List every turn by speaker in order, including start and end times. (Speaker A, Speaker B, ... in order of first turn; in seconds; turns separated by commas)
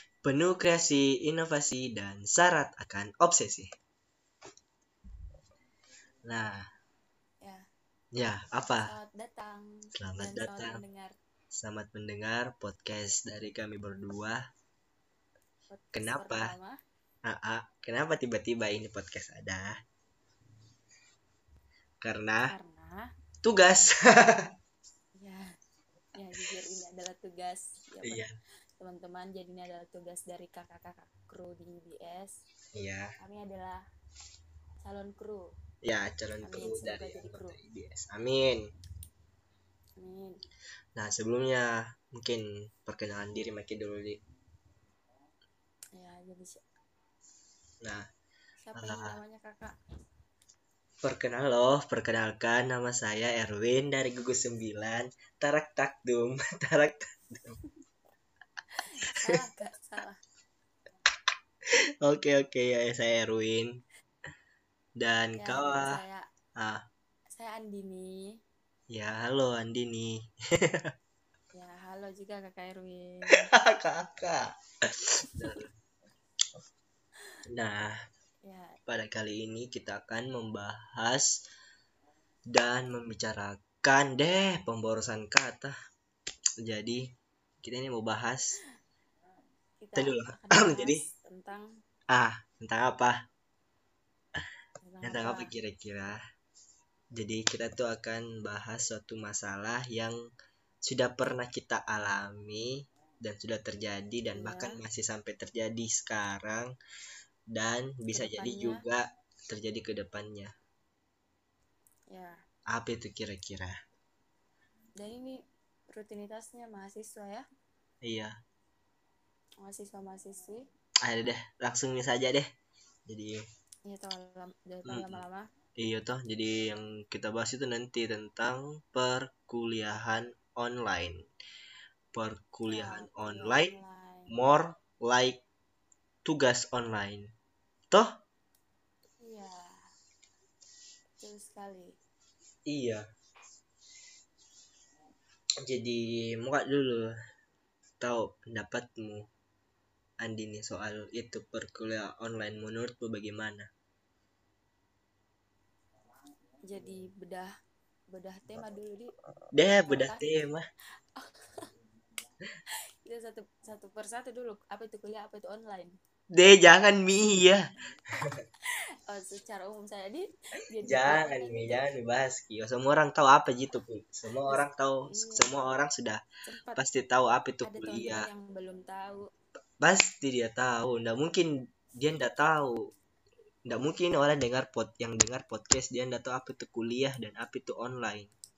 Speaker A: 0.2-3.7, Speaker A: 6.2-6.6, Speaker A: 8.1-8.9, Speaker B: 8.7-11.1, Speaker A: 9.9-10.8, Speaker A: 11.5-14.4, Speaker B: 15.7-16.8, Speaker A: 15.9-16.5, Speaker A: 17.2-19.8, Speaker A: 22.0-22.5, Speaker B: 22.5-23.1, Speaker A: 23.4-24.5, Speaker B: 25.2-25.6, Speaker B: 26.1-28.2, Speaker A: 28.0-28.3, Speaker B: 28.8-32.3, Speaker A: 32.7-33.1, Speaker B: 33.2-33.8, Speaker B: 34.8-35.5, Speaker A: 35.8-38.7, Speaker B: 36.4-37.6, Speaker B: 40.0-40.4, Speaker A: 40.9-44.2, Speaker B: 45.9-46.6, Speaker B: 48.6-49.7, Speaker A: 48.7-49.2, Speaker A: 51.0-57.6, Speaker B: 58.8-60.2, Speaker A: 62.0-63.8, Speaker A: 65.0-66.0, Speaker B: 65.4-66.2, Speaker A: 66.6-66.8, Speaker B: 67.3-68.3, Speaker A: 68.9-70.9, Speaker B: 71.5-73.5, Speaker A: 73.3-74.5, Speaker A: 75.1-75.7, Speaker A: 77.5-78.0, Speaker B: 78.4-78.8, Speaker A: 78.9-81.4, Speaker A: 82.5-85.7, Speaker A: 86.6-87.1, Speaker A: 87.6-88.6, Speaker B: 89.8-91.7, Speaker A: 90.0-91.0, Speaker A: 92.1-93.2, Speaker B: 94.8-95.5, Speaker A: 95.0-96.2, Speaker A: 97.1-100.2, Speaker A: 100.8-106.7, Speaker B: 104.3-104.8, Speaker A: 107.5-110.5, Speaker B: 108.1-108.8, Speaker B: 112.1-112.4, Speaker A: 112.7-113.7, Speaker B: 115.0-117.4, Speaker A: 118.0-118.3, Speaker B: 119.6-120.7, Speaker A: 121.0-122.5, Speaker A: 123.1-123.4, Speaker B: 123.8-125.5, Speaker A: 124.8-125.2, Speaker A: 125.8-131.3, Speaker A: 132.1-133.7, Speaker B: 132.7-134.3, Speaker A: 134.3-135.4, Speaker A: 136.2-137.3, Speaker B: 139.2-139.9, Speaker B: 141.2-141.9, Speaker A: 142.7-143.0, Speaker A: 145.6-147.1, Speaker A: 148.0-149.3, Speaker A: 150.2-153.7, Speaker B: 156.7-157.5, Speaker B: 158.1-159.1, Speaker A: 159.5-160.6, Speaker B: 159.8-160.2, Speaker B: 161.1-161.7, Speaker B: 163.0-165.9, Speaker A: 166.3-167.6, Speaker B: 168.7-171.9, Speaker A: 170.8-176.2, Speaker B: 174.4-175.7, Speaker B: 176.4-176.8, Speaker A: 176.7-178.3, Speaker B: 177.6-179.3, Speaker A: 179.8-182.9, Speaker A: 183.7-188.3